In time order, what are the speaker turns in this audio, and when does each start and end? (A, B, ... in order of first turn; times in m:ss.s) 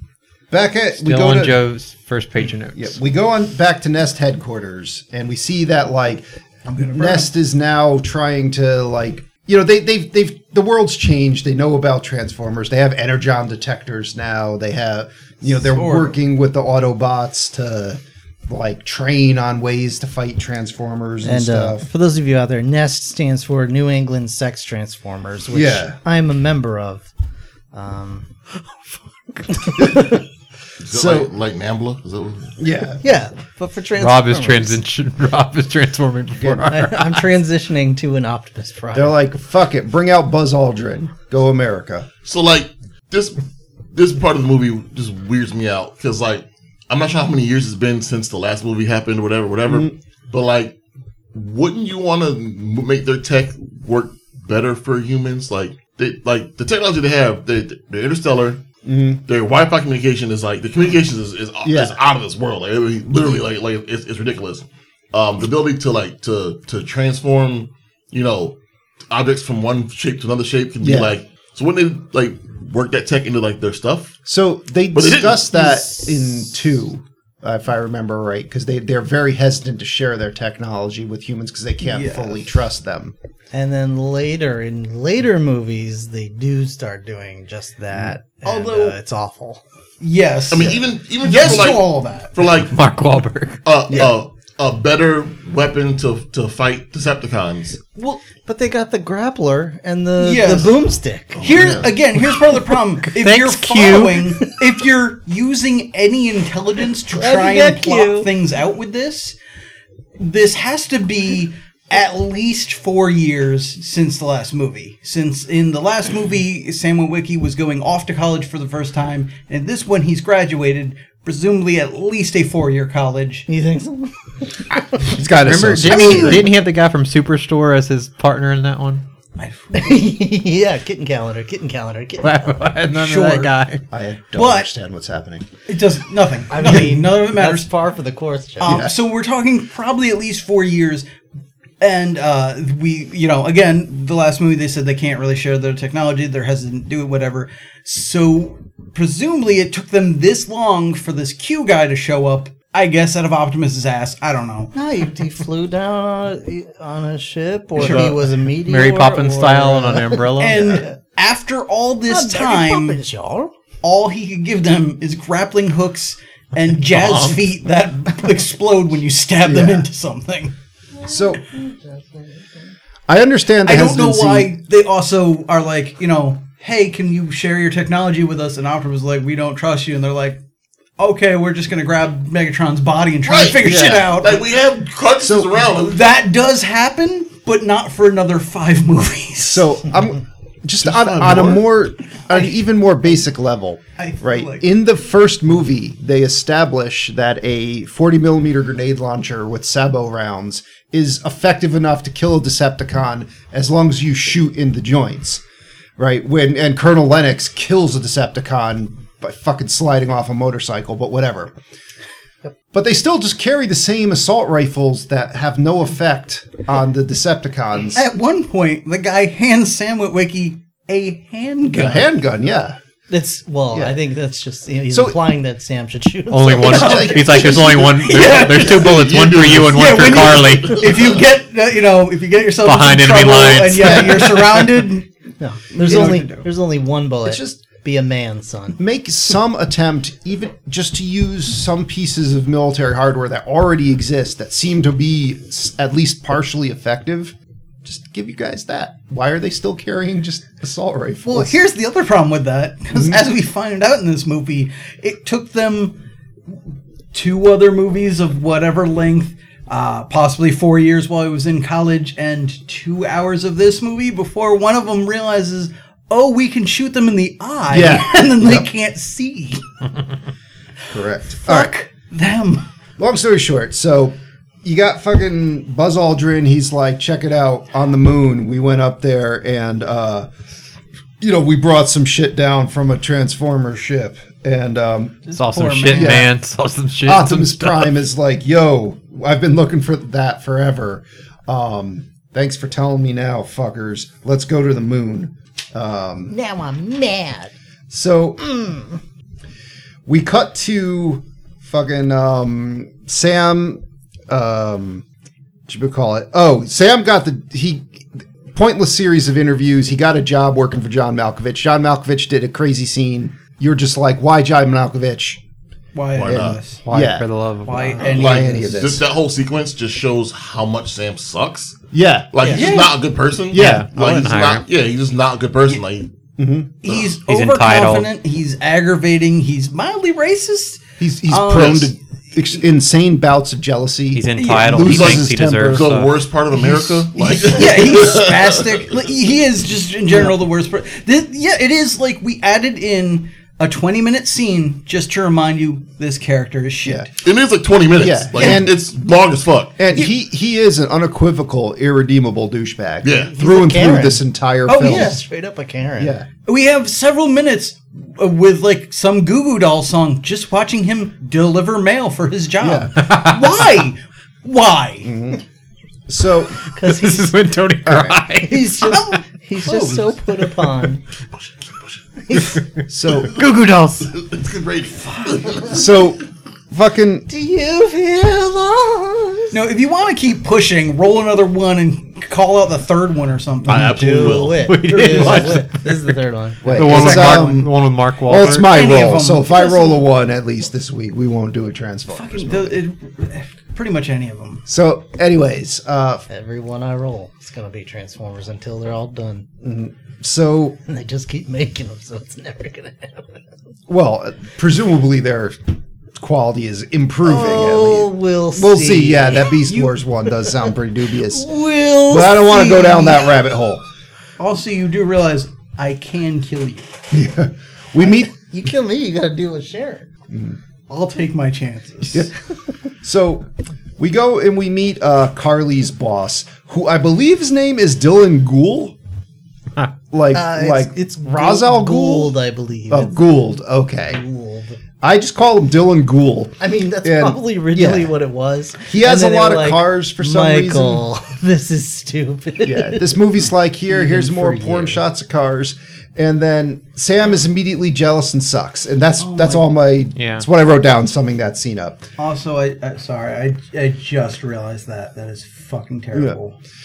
0:00.5-0:01.6 A
0:01.0-0:03.0 B
0:02.8-0:21.9 A
0:06.7-0:07.3 C
0:15.6-0:16.2 C
0:21.2-0:27.1 D
0:25.5-0:26.0 A
0:27.7-0:28.8 D
0:29.3-0:30.2 D
0:29.8-0:30.1 A
0:30.8-0:32.6 E
0:30.9-0:31.3 A
0:32.6-0:33.0 A
0:33.0-0:34.8 D
0:34.0-0:37.3 B
0:36.4-0:36.7 A
0:36.7-0:39.2 D
0:38.9-0:42.1 A
0:42.2-0:43.4 E
0:43.9-0:50.8 E
0:51.3-0:58.6 E
0:58.8-0:59.2 A
0:59.3-1:08.6 E
1:01.6-1:02.0 A
1:09.1-1:14.2 E
1:10.8-1:11.1 A
1:14.3-1:23.2 A
1:14.9-1:15.5 E
1:15.7-1:16.1 C
1:21.8-1:22.4 C
1:23.5-1:29.6 D
1:28.4-1:29.0 C
1:30.0-1:32.3 C
1:30.5-1:32.8 E
1:32.6-1:33.6 B
1:33.6-1:37.8 E
1:38.0-1:41.7 D
1:40.2-1:40.8 C
1:41.4-1:49.4 C
1:41.4-1:41.9 E
1:43.1-1:44.5 B
1:47.1-1:48.3 D
1:50.2-2:03.5 C
2:03.5-2:05.0 D
2:05.1-2:06.5 A
2:05.3-2:09.0 B
2:05.9-2:06.4 C
2:06.1-2:06.4 D
2:09.4-2:10.0 C
2:09.7-2:12.7 D
2:12.2-2:13.8 B
2:12.9-2:13.5 C
2:13.9-2:15.5 A
2:14.3-2:14.7 C
2:15.7-2:17.7 C
2:16.5-2:18.8 D
2:18.6-2:21.0 C
2:18.6-2:18.9 A
2:21.8-2:34.7 C
2:34.7-2:41.0 D
2:37.8-2:38.2 C
2:38.6-2:40.9 B
2:40.4-2:43.0 C
2:42.1-2:43.5 D
2:43.8-2:50.5 C
2:47.0-2:47.3 E
2:49.4-2:49.9 A
2:51.0-2:52.7 D
2:51.0-2:51.4 A
2:53.1-2:54.5 A
2:53.6-3:00.4 C
3:01.0-3:04.4 C
3:03.2-3:06.1 E
3:03.6-3:04.1 A
3:05.2-3:05.5 A
3:05.8-3:09.7 C
3:09.4-3:25.4 A
3:10.9-3:11.6 E
3:14.0-3:14.6 C
3:26.0-3:31.5 A
3:32.7-3:38.1 A
3:37.9-3:42.1 C
3:41.7-3:42.8 A
3:43.1-3:47.0 D
3:43.7-3:44.0 A
3:44.9-3:45.2 A
3:46.3-3:50.9 B
3:46.6-3:49.1 C
3:46.6-3:48.0 A
3:48.3-3:51.2 E
3:49.7-3:55.1 C
3:52.6-3:54.7 B
3:53.8-3:54.2 A
3:55.4-3:58.8 D
3:55.7-3:56.5 C
3:55.9-3:56.2 A
3:57.2-3:57.7 A
3:58.8-4:11.6 A
4:11.3-4:16.0 C
4:17.1-4:29.6 C
4:27.7-4:28.7 A
4:30.9-4:31.7 A
4:31.4-4:32.7 C
4:33.0-4:40.3 A
4:41.2-4:45.2 A
4:45.3-4:46.3 C
4:45.3-4:47.9 B
4:45.9-4:46.3 A
4:47.0-4:56.3 A
4:56.3-4:57.5 D
4:57.9-4:58.6 A
4:58.5-4:58.9 D
5:00.1-5:05.0 A
5:05.7-5:15.4 A
5:15.9-5:16.8 C
5:16.1-5:16.6 E
5:16.3-5:17.3 A
5:16.9-5:18.3 B
5:17.6-5:18.8 C
5:18.0-5:21.8 E
5:18.0-5:19.0 A
5:21.9-5:22.6 A
5:22.3-5:26.1 E
5:22.4-5:23.0 C
5:23.5-5:23.9 A
5:23.5-5:24.6 B
5:26.4-5:26.8 A
5:26.8-5:31.9 C
5:27.2-5:28.1 B
5:31.0-5:35.9 A
5:31.5-5:31.9 E
5:34.2-5:36.2 B
5:34.3-5:34.9 C
5:34.8-5:38.9 E
5:36.7-5:47.1 C
5:46.8-5:47.1 A
5:47.2-5:49.8 E
5:48.0-5:48.8 A
5:48.4-5:48.7 C
5:49.8-5:55.2 A
5:53.0-5:53.4 E
5:53.2-5:54.2 D
5:54.7-5:55.2 C
5:54.8-5:56.2 D
5:56.0-5:56.3 A
5:56.4-6:05.1 C
6:02.6-6:03.0 A
6:03.0-6:03.4 B
6:05.0-6:05.4 A
6:06.1-6:06.6 A
6:06.6-6:07.3 D
6:06.8-6:08.9 B
6:07.9-6:08.2 A
6:08.4-6:11.0 D
6:08.8-6:10.2 C
6:12.2-6:12.6 D
6:12.3-6:14.1 B
6:12.9-6:13.3 A
6:14.1-6:15.8 E
6:15.7-6:17.3 A
6:17.3-6:19.6 D
6:19.5-6:23.9 C
6:23.6-6:24.8 E
6:23.7-6:26.7 D
6:24.4-6:28.7 B
6:24.9-6:25.7 C
6:26.6-6:27.7 A
6:26.9-6:27.5 C
6:28.3-6:32.8 A
6:28.4-6:30.0 C
6:32.1-6:34.6 C
6:34.7-6:36.2 A
6:36.3-6:39.5 D
6:39.6-6:40.8 A
6:40.9-6:43.4 D
6:43.9-6:53.8 A
6:47.2-6:49.6 D
6:49.6-6:50.0 C
6:51.3-6:53.3 C
6:54.4-6:56.9 C
6:57.1-6:58.3 A
6:58.0-7:00.1 D
7:00.3-7:00.6 A
7:00.9-7:02.3 C
7:03.0-7:03.5 A
7:04.0-7:09.0 A
7:10.1-7:12.4 A
7:10.3-7:13.2 D
7:12.9-7:14.2 A
7:14.1-7:14.8 D
7:15.0-7:18.1 A
7:16.6-7:23.2 D
7:18.9-7:21.0 A
7:22.6-7:32.1 A
7:23.9-7:25.0 D
7:29.2-7:29.7 C
7:30.2-7:30.5 B
7:32.2-7:36.6 C